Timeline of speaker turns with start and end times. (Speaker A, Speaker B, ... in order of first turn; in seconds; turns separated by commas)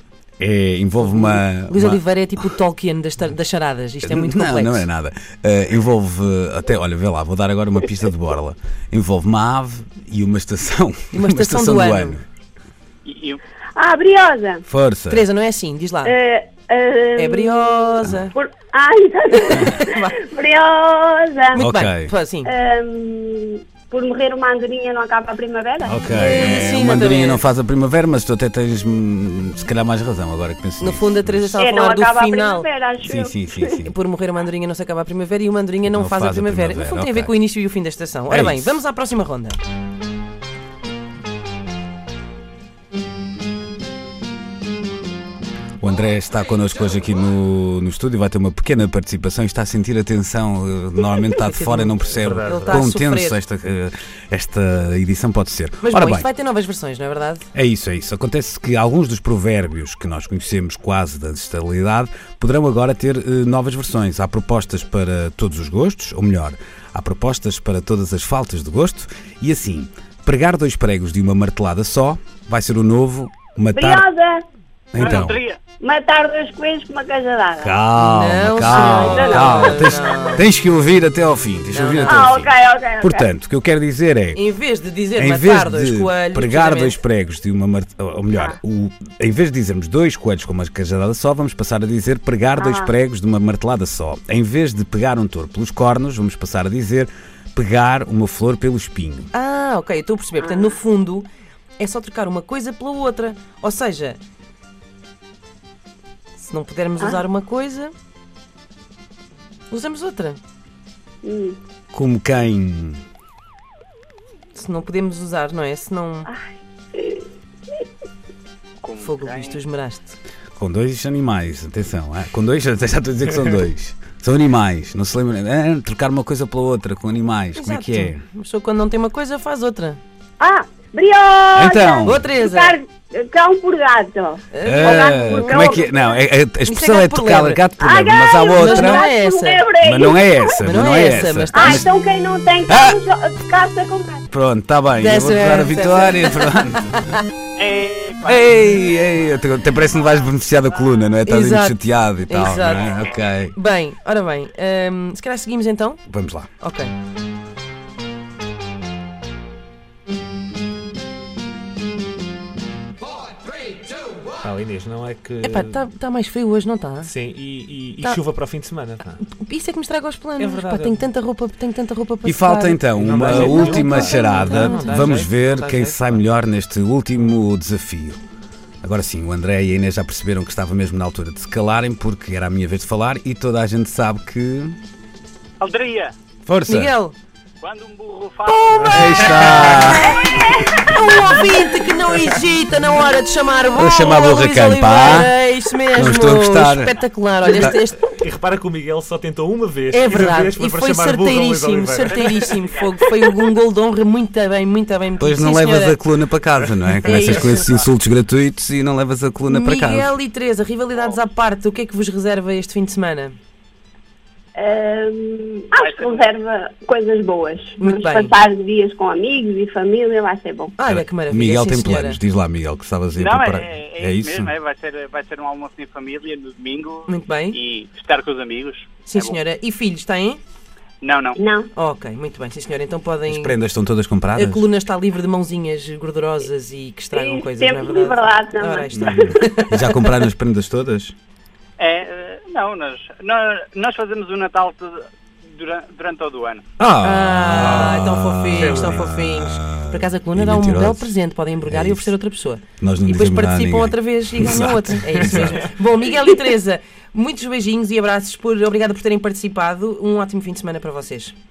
Speaker A: 0.4-2.5, Speaker B: 1.0-4.9, Speaker A: 4.0-12.2, Speaker B: 11.1-12.2, Speaker C: 13.0-13.4, Speaker D: 13.8-14.6, Speaker A: 14.7-15.2, Speaker B: 15.1-16.1, Speaker D: 16.0-21.6, Speaker B: 17.2-18.3, Speaker B: 19.4-20.1, Speaker A: 21.5-22.1, Speaker B: 21.6-22.5, Speaker D: 22.4-26.3, Speaker A: 25.8-31.6, Speaker B: 26.1-27.4, Speaker B: 30.8-32.6, Speaker D: 31.6-33.8, Speaker A: 33.0-33.9, Speaker B: 33.8-39.6, Speaker A: 35.9-37.3, Speaker A: 38.3-38.7, Speaker A: 45.8-56.3, Speaker B: 51.5-53.4, Speaker E: 52.1-52.8, Speaker B: 55.8-57.5, Speaker A: 57.5-74.1, Speaker D: 73.7-74.4, Speaker A: 74.9-75.4, Speaker C: 75.0-75.6, Speaker D: 75.8-77.8, Speaker A: 77.6-84.4, Speaker B: 78.0-80.5, Speaker D: 78.7-80.3, Speaker B: 81.7-82.3, Speaker D: 82.1-83.3, Speaker B: 84.3-87.0, Speaker A: 85.2-99.3, Speaker D: 92.6-92.9, Speaker B: 99.3-104.2, Speaker D: 100.4-100.8, Speaker B: 106.3-107.9, Speaker B: 109.7-110.4, Speaker D: 111.2-111.6, Speaker A: 111.9-113.0, Speaker B: 114.5-116.3, Speaker D: 116.9-117.8, Speaker C: 118.8-119.6, Speaker B: 119.0-120.2, Speaker A: 120.5-128.2, Speaker B: 127.5-130.0, Speaker D: 130.4-136.2, Speaker A: 131.5-132.2, Speaker B: 132.0-132.8, Speaker B: 134.5-135.9, Speaker A: 134.6-139.1, Speaker B: 136.7-137.6, Speaker D: 137.8-140.6, Speaker B: 138.6-139.6, Speaker A: 139.8-141.9, Speaker B: 140.6-141.8, Speaker D: 141.5-144.3, Speaker A: 142.7-143.0, Speaker A: 144.3-146.9, Speaker B: 145.0-147.2, Speaker C: 147.6-148.5, Speaker A: 148.2-153.5, Speaker B: 151.2-156.0, Speaker C: 152.7-153.2, Speaker A: 156.1-156.5, Speaker B: 156.6-156.9, Speaker E: 164.4-165.8, Speaker B: 165.4-167.1, Speaker E: 167.0-169.2, Speaker B: 169.2-175.9, Speaker E: 170.4-171.1, Speaker A: 172.2-178.2, Speaker E: 172.9-175.3, Speaker A: 178.8-184.8, Speaker C: 185.6-186.1, Speaker A: 186.4-186.9, Speaker B: 186.7-187.2, Speaker C: 187.6-190.0, Speaker E: 188.7-189.9, Speaker A: 188.8-190.2, Speaker B: 189.8-198.1, Speaker D: 190.2-190.6, Speaker A: 193.7-195.3, Speaker A: 195.9-197.0, Speaker E: 197.7-202.2, Speaker B: 199.9-206.0, Speaker C: 202.0-203.1, Speaker A: 205.2-210.1, Speaker B: 207.0-207.7, Speaker B: 209.5-213.3, Speaker C: 210.9-211.2, Speaker D: 214.6-220.8, Speaker C: 215.8-216.3, Speaker B: 217.8-218.3, Speaker B: 220.8-222.2, Speaker A: 220.8-224.5, Speaker C: 223.2-229.4, Speaker B: 227.1-227.6, Speaker B: 229.1-230.4, Speaker C: 231.0-231.4, Speaker D: 231.4-231.7, Speaker B: 231.7-233.6, Speaker A: 233.3-234.6, Speaker B: 234.3-240.1, Speaker D: 237.1-239.5, Speaker A: 238.9-241.1, Speaker C: 241.8-246.6, Speaker A: 246.8-251.1, Speaker B: 247.0-261.3, Speaker E: 248.6-248.9, Speaker A: 251.7-252.1, Speaker A: 252.8-255.6